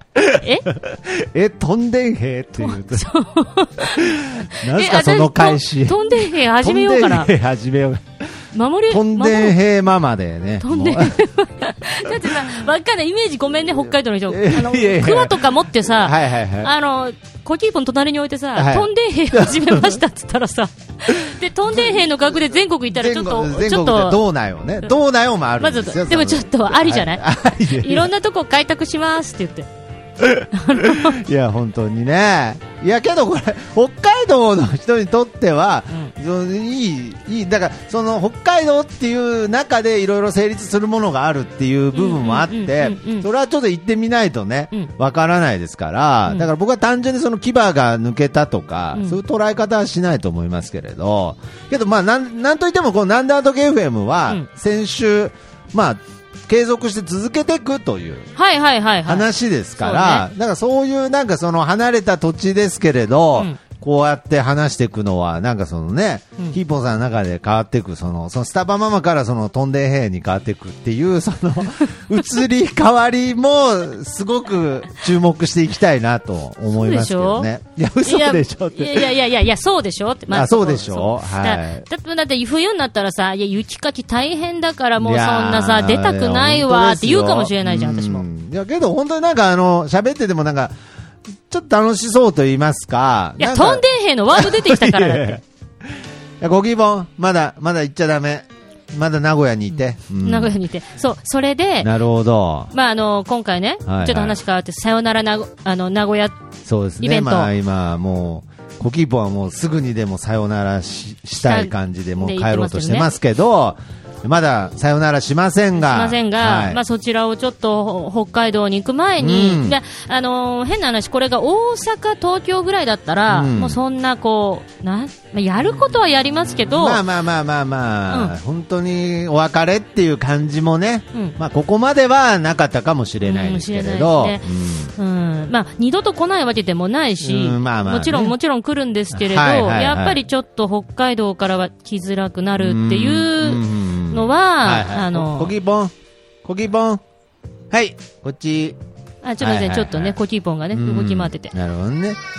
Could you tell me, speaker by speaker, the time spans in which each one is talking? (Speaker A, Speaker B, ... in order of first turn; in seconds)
Speaker A: 0.2-3.1, 3.8-8.3, 8.9-11.2, 14.3-16.7, 18.6-20.0, 21.7-22.1, 22.9-28.1, 30.2-58.3, 59.0-79.1, 80.3-81.9, 85.0-90.7, 91.5-100.5, 101.8-102.7, 103.9-104.4, 106.7-116.8, 119.2-119.8, 123.3-123.8, 126.7-134.9, 137.2-138.3, 139.1-140.2, 142.6-145.9, 146.4-147.0, 147.7-148.8, 149.4-150.2, 150.7-152.2
Speaker B: 0.3-0.7, 2.6-7.3, 8.5-9.6, 10.6-24.2, 25.6-29.7, 30.5-31.2, 41.9-43.3, 48.9-49.2, 58.4-59.3, 59.8-60.3, 76.8-77.5, 78.0-88.3, 93.4-95.4, 100.2-101.9, 102.7-106.4, 107.0-107.5, 111.4-113.1, 115.8-127.0, 128.1-128.3, 133.2-145.5, 149.2-151.5